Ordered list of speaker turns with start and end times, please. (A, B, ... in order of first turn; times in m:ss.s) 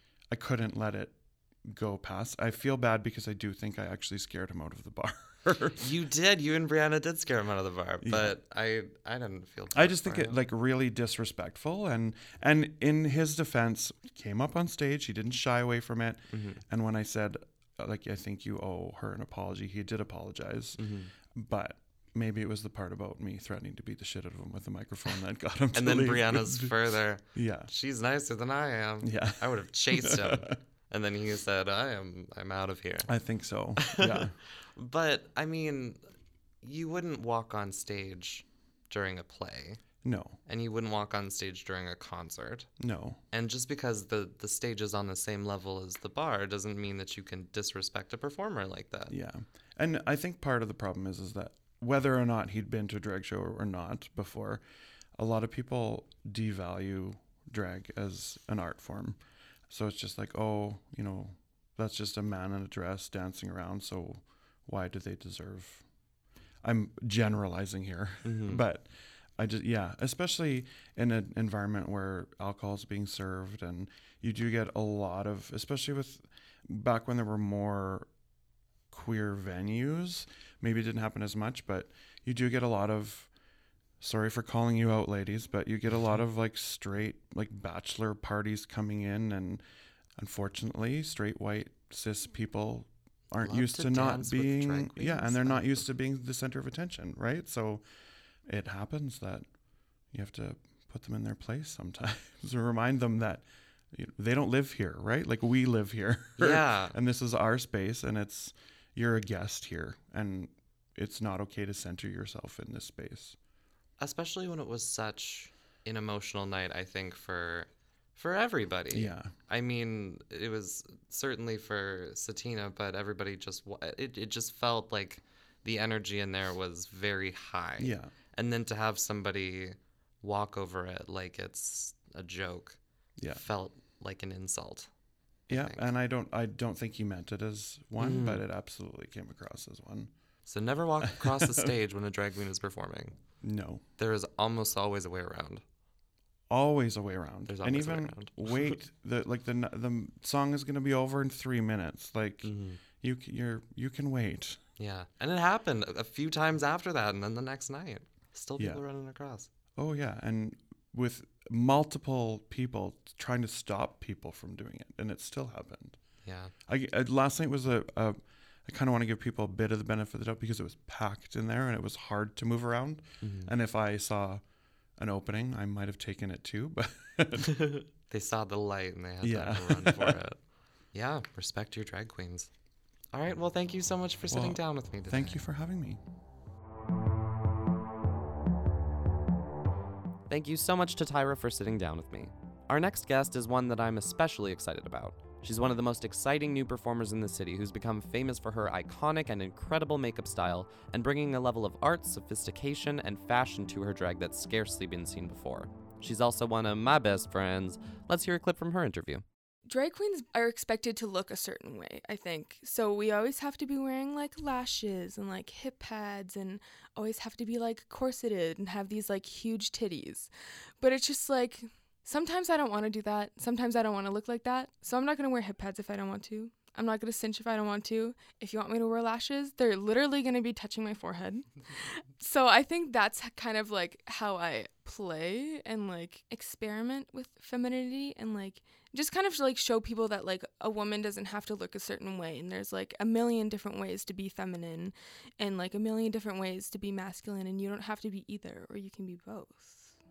0:00.3-0:05.8 A
0:05.8-0:10.4 B
0:08.0-0:08.3 A
0:09.7-0:27.7 A
0:16.3-0:16.6 B
0:20.8-0:21.1 B
0:25.7-0:33.1 B
0:29.0-0:30.6 A
0:33.1-0:34.4 A
0:33.8-0:36.0 B
0:36.6-0:39.8 B
0:40.0-0:40.4 A
0:40.4-0:42.7 B
0:42.8-0:43.2 A
0:43.3-0:49.1 B
0:49.1-0:54.6 A
0:55.1-1:05.9 A
1:06.6-1:18.1 A
1:08.2-1:08.6 B
1:18.9-1:23.3 A
1:24.0-1:29.6 A
1:30.2-1:37.8 A
1:33.4-1:35.8 B
1:38.4-1:39.5 A
1:40.1-1:53.4 A
1:46.4-1:46.9 B
1:54.0-2:14.9 B
1:58.9-1:59.3 A
2:07.8-2:08.1 A
2:13.2-2:13.4 A
2:15.5-2:15.9 B
2:15.5-2:20.1 A
2:18.0-2:18.4 B
2:20.4-2:23.2 B
2:21.0-2:21.7 A
2:23.4-2:23.8 A
2:24.0-2:25.6 B
2:26.5-2:34.6 A
2:27.5-2:28.8 B
2:32.4-2:32.8 B
2:34.8-2:39.5 B
2:38.6-2:38.8 A
2:39.8-2:54.4 A
2:46.2-2:46.5 B
2:53.2-2:53.5 B
2:55.0-2:57.5 A
2:57.6-3:00.4 B
2:59.2-3:00.2 A
3:00.9-3:02.5 B
3:03.1-3:05.4 B
3:04.3-3:06.0 A
3:10.3-3:29.2 C
3:29.6-4:09.9 D